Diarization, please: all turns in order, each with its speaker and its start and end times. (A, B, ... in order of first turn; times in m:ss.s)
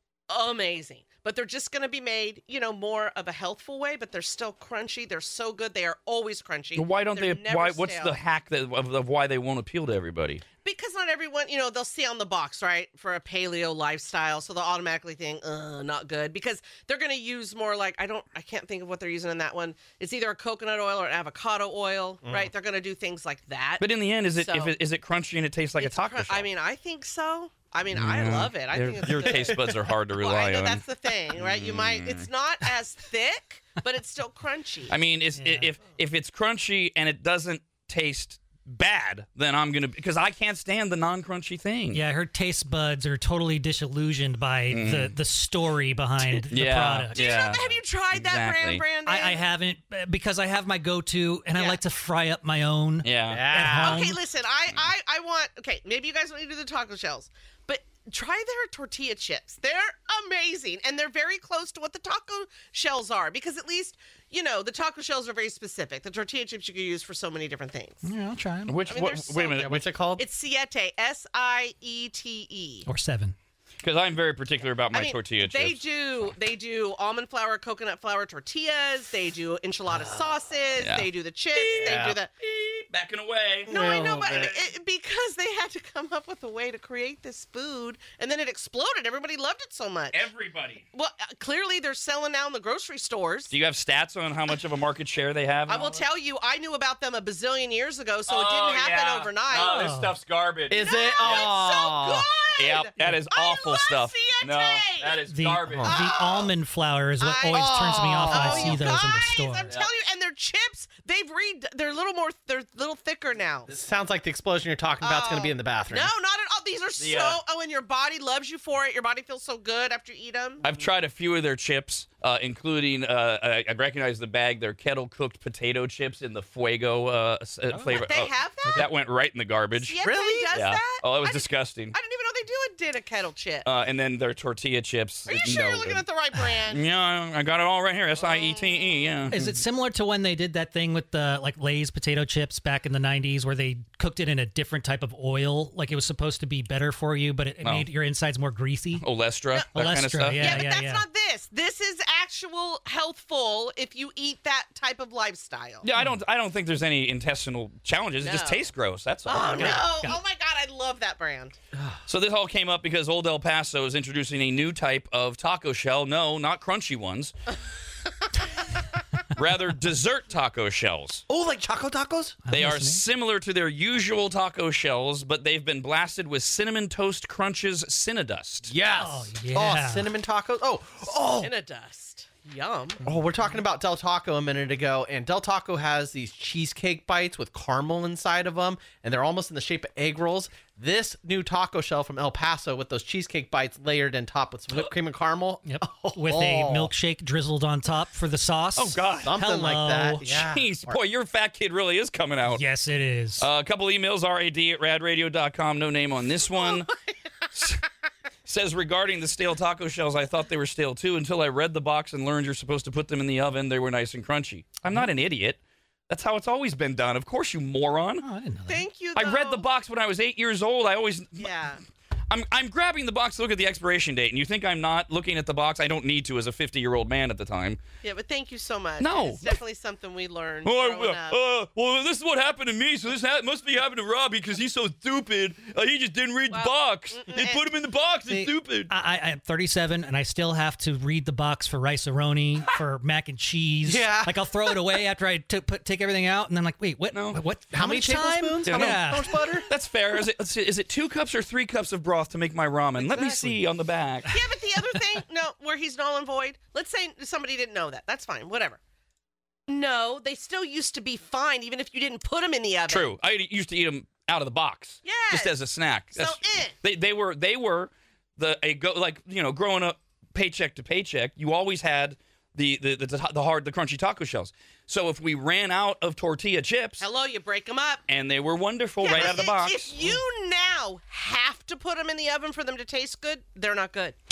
0:00.3-0:08.2 A
0:06.7-0:10.4 B
0:10.6-0:24.7 A
0:22.2-0:22.5 C
0:23.8-0:26.5 B
0:25.8-0:34.9 A
0:27.9-0:32.3 B
0:34.9-0:42.0 B
0:35.4-0:35.7 D
0:41.9-0:47.4 D
0:44.7-0:45.1 B
0:46.4-0:48.8 B
0:47.1-0:49.4 A
0:49.0-0:54.2 D
0:51.5-0:51.8 A
0:53.0-0:53.5 B
0:53.3-0:54.0 C
0:53.8-1:08.1 A
1:08.0-1:08.8 D
1:08.7-1:09.8 B
1:08.9-1:12.9 A
1:09.5-1:10.2 C
1:12.8-1:13.3 D
1:13.8-1:15.8 B
1:14.9-1:22.3 A
1:20.8-1:24.5 B
1:21.7-1:22.2 C
1:23.6-1:24.5 C
1:23.7-1:30.2 A
1:30.1-1:30.8 B
1:30.9-1:33.5 A
1:33.5-1:36.0 B
1:35.7-1:39.9 A
1:38.3-1:41.5 B
1:39.6-1:40.1 D
1:40.7-1:42.3 C
1:40.8-1:45.2 A
1:42.6-1:46.0 B
1:45.3-1:49.7 D
1:45.8-1:46.5 A
1:47.2-1:53.7 A
1:47.5-1:48.8 C
1:53.7-1:56.1 C
1:55.0-2:00.6 A
1:57.0-1:57.4 B
2:00.6-2:10.0 B
2:07.7-2:08.0 D
2:07.9-2:08.9 A
2:09.8-2:13.7 A
2:10.0-2:10.5 C
2:10.5-2:11.9 B
2:13.6-2:16.0 B
2:15.3-2:16.8 A
2:16.7-2:19.6 B
2:18.2-2:19.0 A
2:19.3-2:29.0 D
2:27.6-2:27.9 B
2:29.0-2:30.6 B
2:29.7-2:31.0 D
2:30.4-2:35.9 A
2:35.8-2:39.9 B
2:38.2-2:38.6 A
2:39.2-2:41.6 A
2:39.5-2:40.2 D
2:42.1-2:47.3 B
2:49.3-2:51.2 B
2:51.3-2:52.4 C
2:52.4-2:53.0 D
2:52.5-2:58.7 B
2:58.7-3:01.5 C
2:59.0-3:00.1 D
3:01.4-3:03.0 A
3:03.0-3:16.9 C
3:15.6-3:20.3 D
3:18.8-3:19.4 B
3:19.2-3:21.0 C
3:20.2-3:22.6 B
3:22.5-3:23.5 D
3:23.4-3:26.9 B
3:26.6-3:27.0 A
3:27.5-3:27.8 B
3:28.4-3:38.2 B
3:38.2-3:38.8 D
3:38.7-3:39.6 A
3:39.1-3:41.5 B
3:41.4-3:41.8 A
3:42.3-3:47.8 B
3:48.0-3:51.4 A
3:49.0-3:49.6 B
3:50.6-3:58.9 B
3:56.5-3:57.6 A
3:58.9-4:09.5 D
4:03.8-4:04.4 C
4:07.1-4:07.4 B
4:07.7-4:09.7 C
4:08.6-4:14.3 B
4:13.1-4:13.5 C
4:14.3-4:18.8 A
4:19.7-4:23.1 A
4:22.9-4:37.0 B
4:25.0-4:25.5 A
4:26.1-4:26.7 A
4:37.0-4:38.0 A
4:38.1-4:40.2 B
4:39.0-4:44.2 A